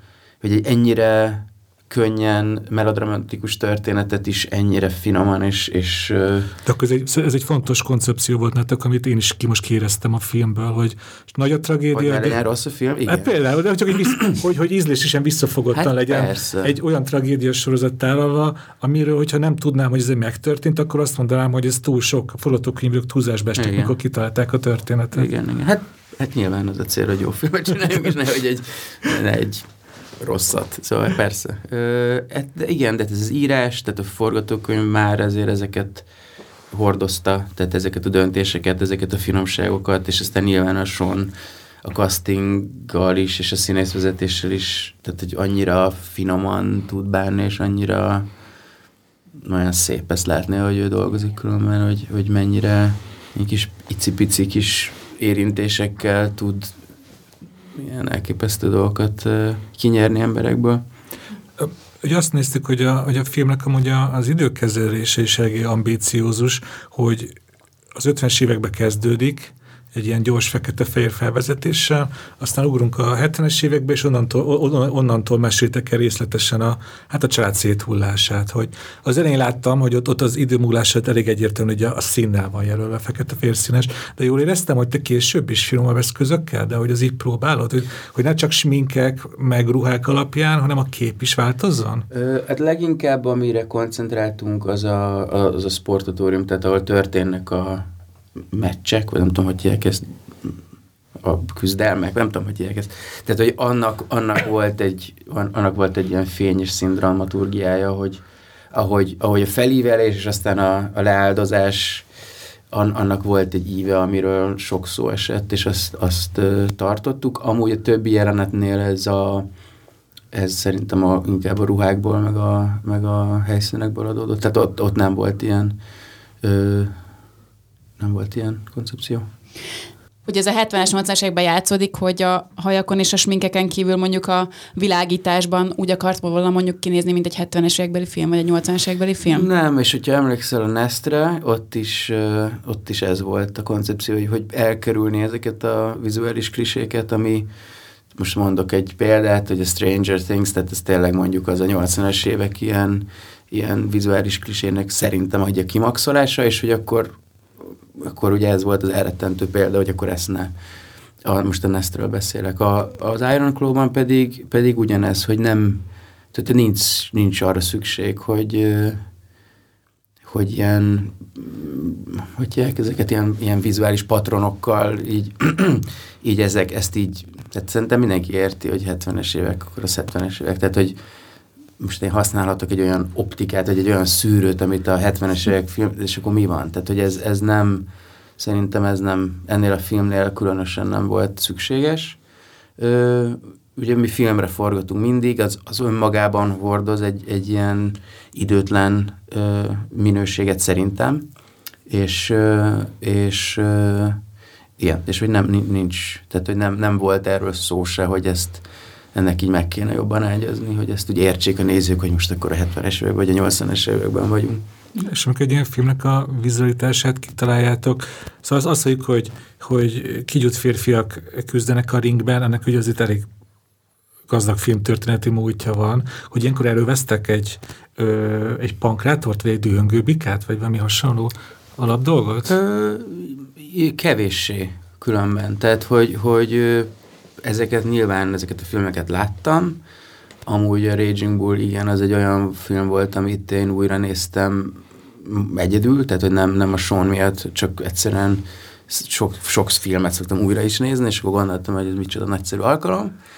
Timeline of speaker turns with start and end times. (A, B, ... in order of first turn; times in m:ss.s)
0:00.4-0:06.5 A
0:06.7-0:12.4 B
0:11.9-0:13.3 A
0:13.1-0:25.3 B
0:15.7-0:16.8 A
0:23.6-0:24.0 A
0:25.1-0:29.7 A
0:30.2-0:36.1 A
0:36.7-0:41.3 A
0:41.8-0:48.3 A
0:49.4-0:56.8 A
0:57.8-1:00.8 A
1:01.6-1:07.3 B
1:07.9-1:32.1 B
1:32.1-1:37.9 A
1:38.5-1:40.6 A
1:41.2-1:52.1 A
1:52.7-1:59.5 A
2:00.3-2:05.8 A
2:06.4-2:07.0 A
2:08.0-2:09.3 A
2:10.2-2:19.5 C
2:19.3-2:27.5 A
2:28.2-2:37.1 A
2:38.0-2:40.5 A
2:41.2-2:49.0 A
2:50.2-3:01.0 A
3:01.8-3:07.9 A
3:08.4-3:12.2 A
3:12.8-3:21.3 A
3:21.9-3:24.2 A
3:24.8-3:28.6 A
3:29.1-3:34.6 A
3:35.0-3:43.3 B
3:44.3-3:52.6 B
3:52.5-3:56.9 A
3:57.4-3:59.8 A
4:00.5-4:13.1 A